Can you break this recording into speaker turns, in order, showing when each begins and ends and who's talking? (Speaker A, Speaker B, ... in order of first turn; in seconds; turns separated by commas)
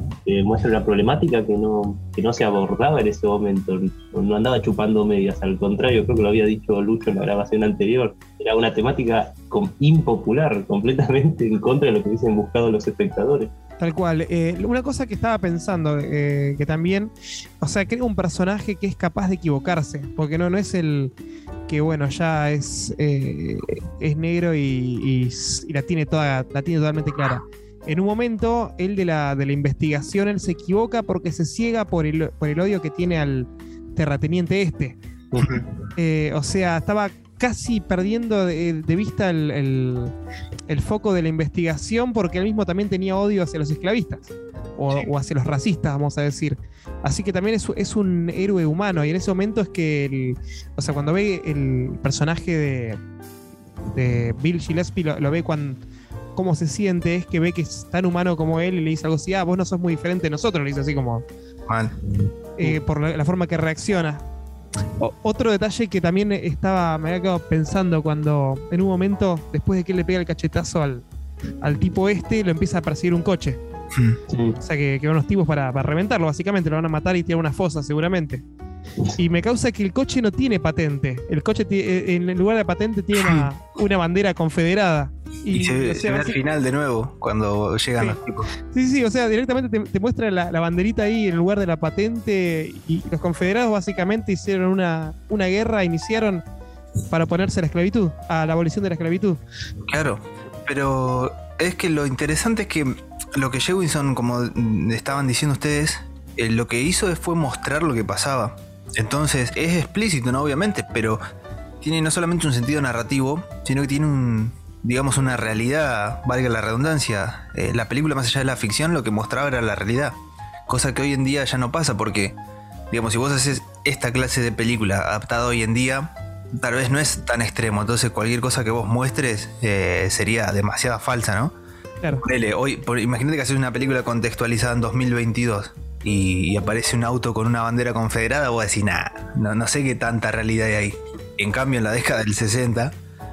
Speaker A: 0.2-13.5, Speaker B: 13.8-21.1, Speaker B: 21.7-35.0, Speaker A: 35.3-35.6, Speaker B: 36.0-40.1, Speaker B: 40.7-53.0, Speaker B: 53.9-55.8, Speaker B: 56.3-61.2, Speaker C: 61.7-61.9, Speaker B: 62.6-64.2, Speaker B: 65.0-71.0, Speaker B: 71.6-73.6, Speaker C: 73.9-74.2, Speaker A: 74.3-74.6, Speaker B: 74.6-78.4, Speaker B: 79.2-86.4, Speaker C: 83.2-83.5, Speaker C: 85.5-88.5, Speaker B: 88.7-96.4, Speaker B: 97.1-99.4, Speaker C: 99.9-111.2, Speaker C: 111.8-120.2, Speaker C: 120.7-122.3, Speaker C: 122.9-131.5, Speaker C: 132.2-142.9